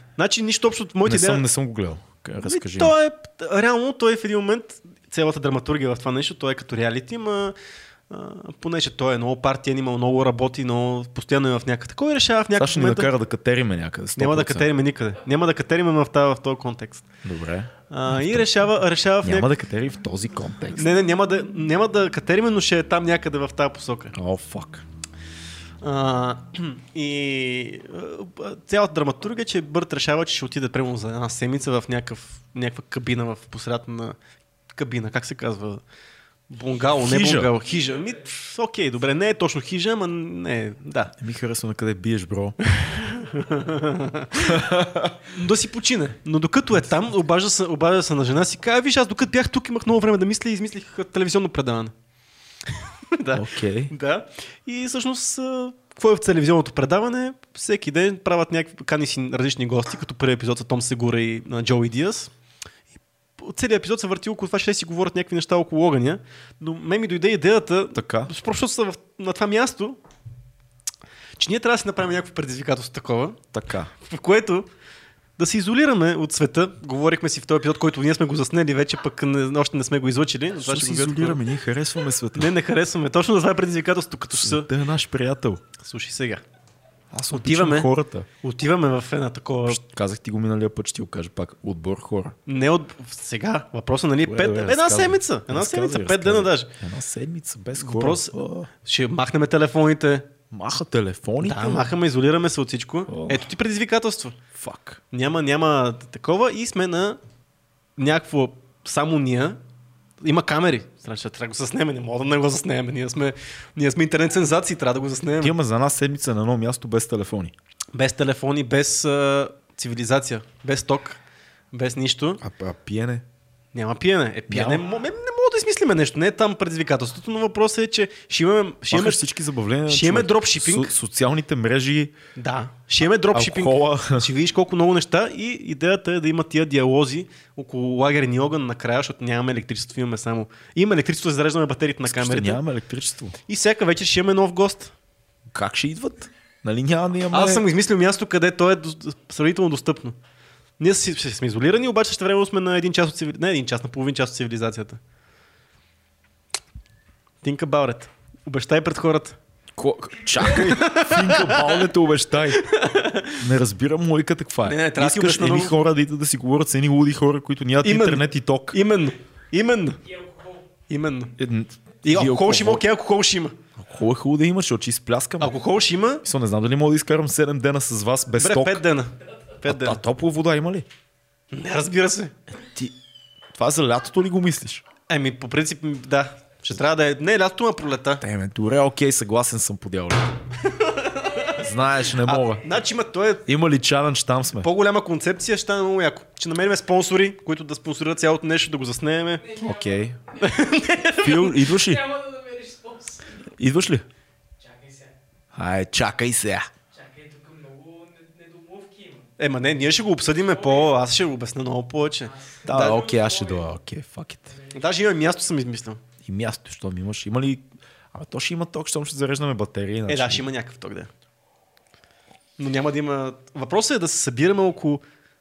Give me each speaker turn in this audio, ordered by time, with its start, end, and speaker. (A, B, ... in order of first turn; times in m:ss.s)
0:00.2-0:01.4 A
0:01.0-0:03.0 B
0:02.4-0:07.6 A
0:08.1-0:13.1 A
0:12.6-0:14.7 B
0:14.2-0:17.1 A
0:17.2-0:18.6 B
0:17.9-0:19.5 A
0:19.2-0:20.9 B
0:20.7-0:24.2 A
0:24.1-0:24.8 B
0:25.8-0:34.2 A
0:34.8-0:35.8 A
0:36.5-0:41.2 A
0:37.0-0:37.5 B
0:41.2-0:43.0 B
0:42.7-0:44.7 A
0:44.4-0:45.2 B
0:45.2-0:51.9 A
0:52.7-1:02.3 A
0:53.3-0:53.9 B
1:03.4-1:10.0 A
1:08.0-1:08.3 B
1:11.4-1:13.4 A
1:13.5-1:13.9 B
1:14.0-1:14.7 A
1:15.4-1:21.4 A
1:20.6-1:22.5 B
1:22.4-1:24.7 A
1:24.4-1:25.6 B
1:25.8-1:26.4 A
1:27.1-1:28.3 B
1:27.3-1:27.9 A
1:28.4-1:29.8 A
1:29.7-1:32.4 B
1:32.5-1:36.7 A
1:34.2-1:38.7 B
1:37.8-1:40.3 A
1:40.5-1:42.0 B
1:41.4-1:44.4 A
1:43.1-1:43.5 B
1:44.6-1:45.0 B
1:45.1-1:47.2 A
1:48.0-1:49.6 A
1:50.2-1:55.6 A
1:55.4-1:57.5 B
1:57.9-2:01.2 A
2:01.7-2:02.4 A
2:02.4-2:03.3 B
2:03.7-2:09.2 A
2:04.5-2:04.8 B
2:08.9-2:12.2 B
2:09.9-2:10.9 A
2:12.4-2:22.6 A
2:13.3-2:14.3 B
2:22.1-2:23.4 B
2:23.5-2:25.0 A
2:25.5-2:27.7 B
2:27.3-2:30.2 A
2:30.8-2:35.0 A
2:37.4-2:39.4 A
2:39.8-2:42.6 B
2:40.4-2:41.9 A
2:42.5-2:43.4 A
2:43.4-2:48.8 B
2:44.7-2:45.8 A
2:47.8-2:50.1 A
2:50.9-2:51.3 A
2:51.4-2:52.8 B
2:52.0-2:53.6 A
2:53.8-2:55.6 B
2:55.4-2:56.2 A
2:56.2-2:58.8 B
2:58.4-3:00.0 A
2:59.6-3:00.9 B
3:01.5-3:02.4 A
3:02.6-3:03.0 B
3:03.5-3:04.8 B
3:05.1-3:08.2 A
3:08.2-3:10.4 B
3:10.6-3:11.6 A
3:11.5-3:12.7 B
3:12.2-3:13.4 A
3:13.5-3:14.7 B
3:14.6-3:19.6 A
3:19.6-3:20.2 B
3:20.3-3:21.7 A
3:21.2-3:22.1 B
3:21.9-3:23.4 C
3:23.5-3:24.1 B
3:24.6-3:25.1 C
3:25.5-3:26.7 B
3:26.9-3:29.2 C
3:29.4-3:33.0 A
3:32.6-3:34.6 B
3:32.7-3:33.4 C
3:34.7-3:36.0 A
3:36.2-3:40.5 B
3:40.1-3:41.1 A
3:42.6-3:45.0 A